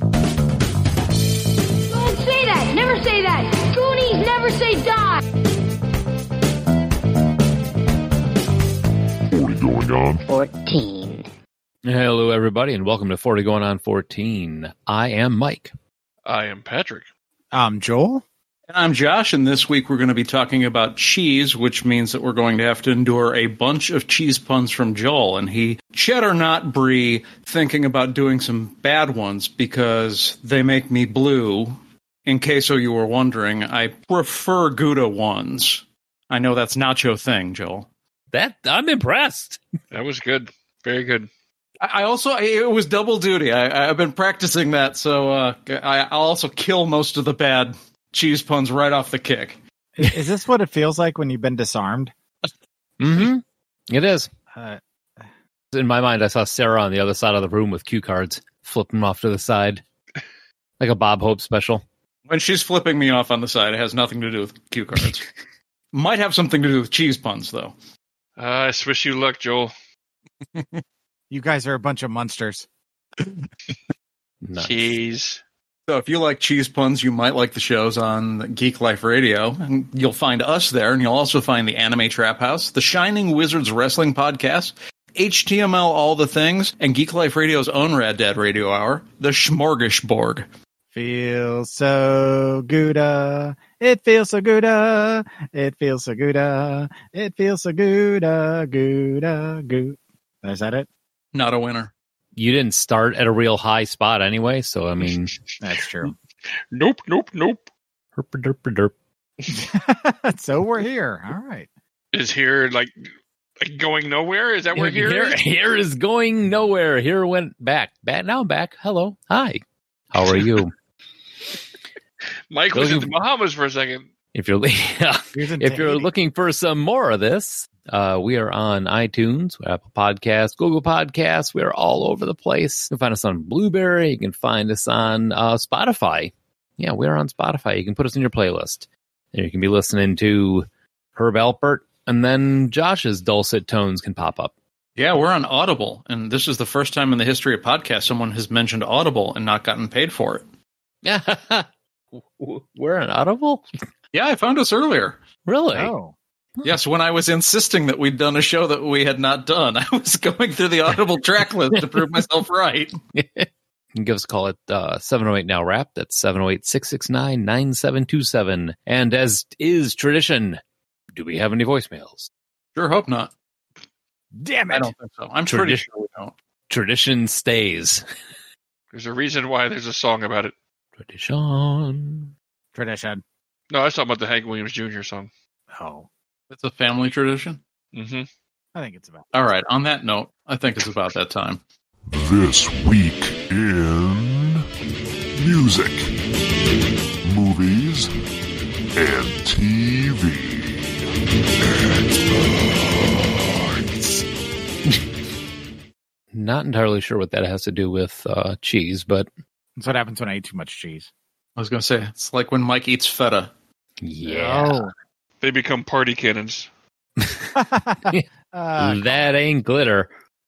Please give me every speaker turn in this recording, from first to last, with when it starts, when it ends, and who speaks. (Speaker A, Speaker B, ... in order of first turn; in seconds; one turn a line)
Speaker A: 1.9-5.2
Speaker B: 9.3-10.3
Speaker A: 10.3-11.3
Speaker C: 11.8-15.7
Speaker D: 16.2-17.1
Speaker E: 17.5-18.2
Speaker F: 18.7-37.9
Speaker C: 38.3-39.6
Speaker D: 39.9-41.3
Speaker F: 41.8-49.6
Speaker E: 50.0-52.1
Speaker C: 53.0-54.3
Speaker E: 54.5-54.8
Speaker C: 55.7-59.8
Speaker C: 60.8-61.8
Speaker F: 62.3-65.3
Speaker F: 65.9-67.7
Speaker D: 68.4-69.7
Speaker F: 70.5-70.8
Speaker E: 71.3-72.7
Speaker E: 73.2-73.5
Speaker C: 74.4-75.0
Speaker D: 74.6-75.4
Speaker F: 75.9-90.5
Speaker E: 90.9-100.9
Speaker F: 101.3-101.9
Speaker C: 102.4-105.3
Speaker E: 105.6-106.2
Speaker D: 106.7-107.7
Speaker C: 108.2-108.9
Speaker E: 109.5-111.7
Speaker D: 112.1-112.9
Speaker D: 113.6-115.4
Speaker C: 114.8-120.7
Speaker D: 122.5-124.1
Speaker C: 122.7-123.1
Speaker C: 124.3-144.5
Speaker E: 125.3-126.1
Speaker F: 145.0-150.4
Speaker C: 151.0-153.7
Speaker F: 154.1-155.2
Speaker C: 155.5-155.9
Speaker E: 155.7-156.2
Speaker F: 156.6-163.0
Speaker C: 163.1-170.6
Speaker C: 171.1-172.3
Speaker F: 172.8-173.3
Speaker E: 174.4-174.9
Speaker F: 174.7-176.3
Speaker C: 175.5-175.8
Speaker C: 176.7-178.0
Speaker D: 178.9-180.5
Speaker C: 181.0-182.3
Speaker E: 182.8-183.2
Speaker D: 183.7-185.3
Speaker E: 185.7-186.1
Speaker F: 186.5-187.6
Speaker D: 187.9-188.3
Speaker E: 188.8-189.3
Speaker F: 189.3-191.6
Speaker B: 192.1-194.6
Speaker B: 195.4-196.1
Speaker B: 197.2-198.1
Speaker B: 199.0-201.0
Speaker B: 201.6-204.2
Speaker C: 206.3-209.3
Speaker E: 209.8-211.1
Speaker F: 211.6-213.5
Speaker C: 214.0-214.8
Speaker E: 214.2-214.9
Speaker D: 215.4-216.7
Speaker C: 217.2-217.5
Speaker E: 217.5-219.4
Speaker C: 218.8-220.1